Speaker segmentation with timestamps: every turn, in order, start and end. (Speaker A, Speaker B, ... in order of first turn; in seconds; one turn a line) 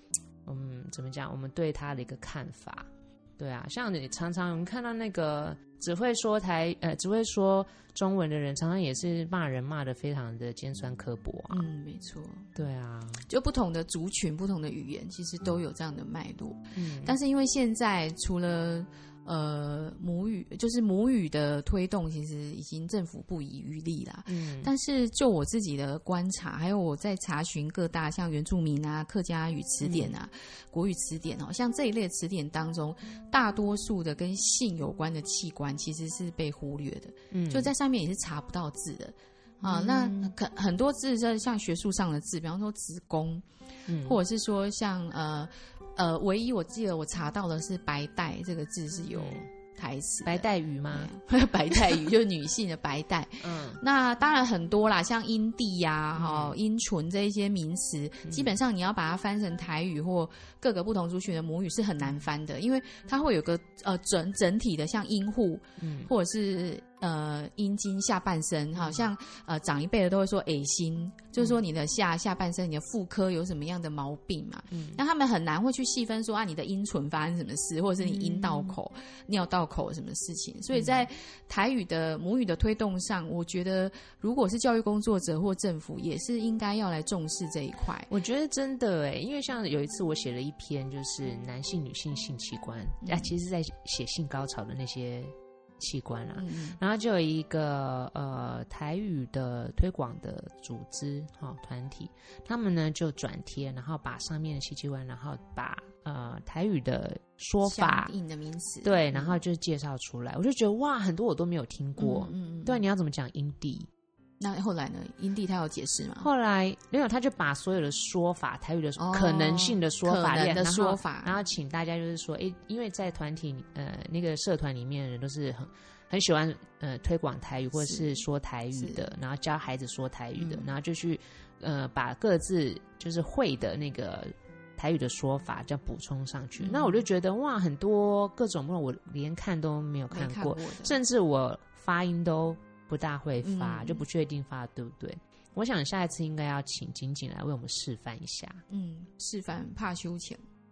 Speaker A: 0.5-11.7
Speaker B: 11.5-12.5
Speaker A: 12.6-13.3
Speaker B: 13.3-43.5
Speaker A: 16.8-17.2
Speaker A: 24.3-24.7
Speaker A: 29.8-30.1
Speaker A: 37.3-37.7
Speaker A: 39.6-40.3
Speaker A: 43.9-44.2
Speaker B: 44.0-88.1
Speaker A: 49.1-49.5
Speaker A: 50.2-51.1
Speaker A: 53.4-53.8
Speaker A: 56.1-56.6
Speaker A: 58.3-58.5
Speaker A: 65.8-66.1
Speaker A: 68.8-69.0
Speaker A: 74.7-75.0
Speaker A: 78.0-78.8
Speaker A: 80.7-81.0
Speaker A: 88.1-108.1
Speaker B: 93.0-93.3
Speaker B: 96.4-96.8
Speaker B: 107.6-109.4
Speaker A: 108.8-113.9
Speaker B: 112.0-112.8
Speaker B: 114.4-116.3
Speaker A: 116.2-148.6
Speaker B: 119.0-121.3
Speaker B: 127.8-128.1
Speaker B: 128.8-129.1
Speaker B: 130.4-130.7
Speaker B: 136.6-137.0
Speaker B: 140.1-141.0
Speaker B: 143.4-144.1
Speaker B: 148.7-150.4